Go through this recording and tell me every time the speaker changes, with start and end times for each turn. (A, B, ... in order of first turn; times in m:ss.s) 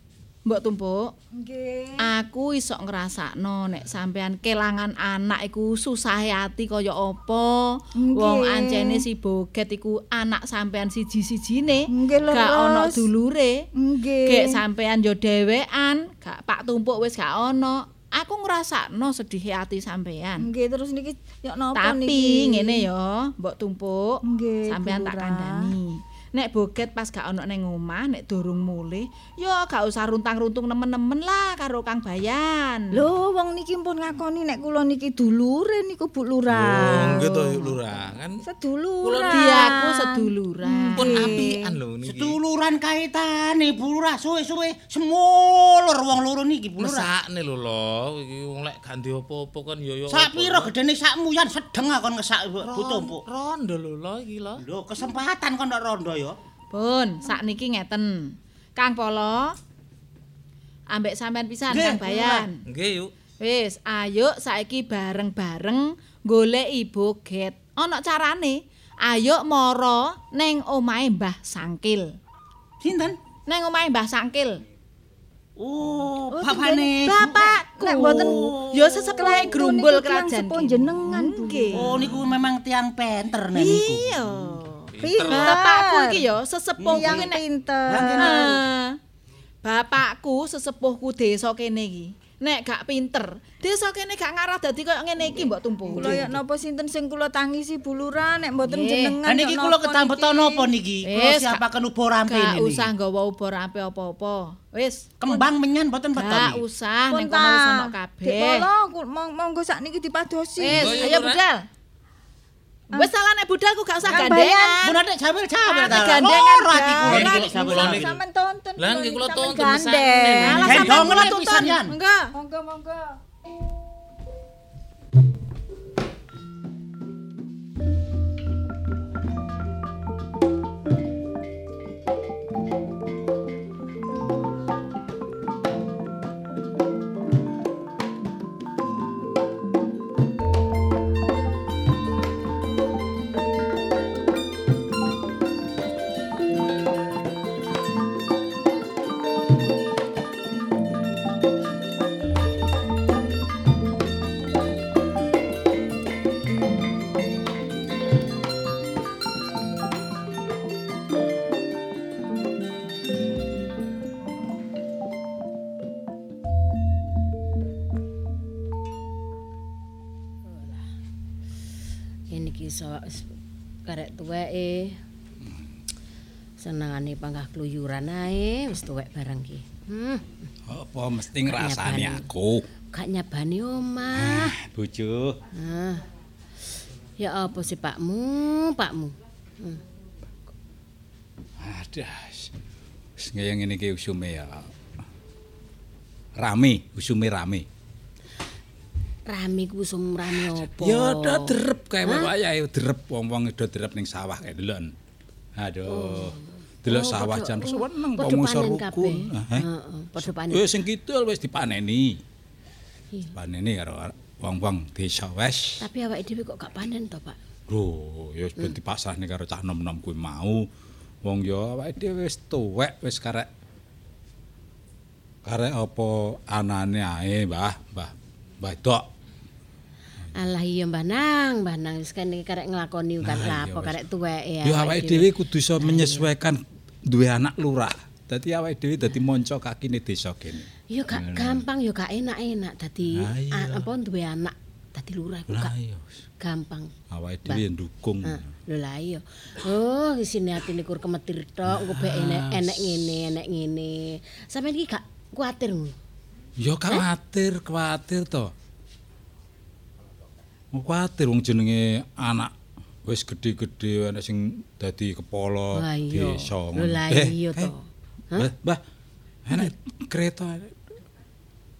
0:00.5-0:01.1 A
0:01.3-0:02.1 B
0:02.0-0:13.6 A
0:08.0-0:09.0 B
0:11.9-0:13.0 B
0:13.8-0:14.6 B
0:14.3-0:20.4 A
0:20.4-0:22.9 B
0:21.8-0:33.0 A
0:24.2-0:25.8 B
0:33.0-0:37.7 B
0:36.6-0:38.4 C
0:37.3-0:37.6 A
0:38.4-0:41.6 B
0:39.0-0:39.5 C
0:39.2-0:41.4 A
0:41.0-0:42.4 C
0:42.0-0:47.1 D
0:46.8-0:50.7 C
0:50.1-0:53.2 D
0:52.7-0:54.6 C
0:54.6-0:56.4 D
0:56.7-0:59.6 A
1:00.9-1:02.6 A
1:01.7-1:02.5 D
1:02.7-1:03.1 C
1:03.4-1:12.2 A
1:12.8-1:13.2 D
1:13.5-1:14.6 A
1:15.6-1:18.8 D
1:16.3-1:22.1 B
1:17.0-1:22.2 A
1:21.8-1:24.1 D
1:23.6-1:27.4 A
1:25.0-1:25.5 C
1:25.0-1:26.2 B
1:26.8-1:27.3 D
1:26.9-1:28.5 B
1:27.9-1:28.6 D
1:28.1-1:29.0 A
1:29.6-1:36.3 A
1:35.9-1:40.5 B
1:36.0-1:36.3 D
1:38.7-1:39.2 A
1:39.3-1:42.9 D
1:41.0-1:41.6 A
1:42.3-1:45.4 A
1:45.2-1:46.6 D
1:46.2-1:48.7 A
1:47.1-1:51.2 B
1:50.6-1:51.7 A
1:50.7-1:51.4 C
1:53.0-1:55.0 A
1:54.1-1:54.8 B
1:54.8-1:58.1 D
1:55.6-1:57.7 A
1:57.3-1:58.2 C
1:57.4-2:00.8 B
1:58.8-2:00.9 C
2:00.4-2:02.3 A
2:00.6-2:01.9 D
2:02.3-2:03.2 B
2:50.4-2:50.9 E
2:52.3-2:53.3 E
2:53.9-2:55.0 E
2:56.6-3:00.4 E
3:00.7-3:02.6 F
3:01.4-3:02.3 E
3:02.9-3:04.5 E
3:04.1-3:05.4 F
3:05.6-3:06.0 E
3:07.2-3:09.8 E
3:11.6-3:12.5 F
3:13.2-3:14.7 F
3:16.4-3:17.7 F
3:19.3-3:22.3 E
3:20.4-3:24.9 F
3:25.6-3:32.2 F
3:25.9-3:30.8 E
3:33.3-3:35.9 F
3:35.8-3:37.4 E
3:37.7-3:40.7 F
3:41.2-3:43.5 F
3:45.4-3:49.1 F
3:50.3-3:56.3 E
3:53.2-3:54.0 F
3:54.6-4:01.6 F
4:00.9-4:05.8 E
4:03.1-4:03.9 F
4:05.5-4:06.2 F
4:06.4-4:06.9 E
4:07.1-4:08.5 F
4:08.2-4:16.0 E
4:11.6-4:13.0 F
4:16.6-4:18.5 F
4:20.7-4:22.5 F
4:23.0-4:27.7 F
4:25.7-4:28.5 E
4:28.4-4:28.8 F
4:29.5-4:30.8 F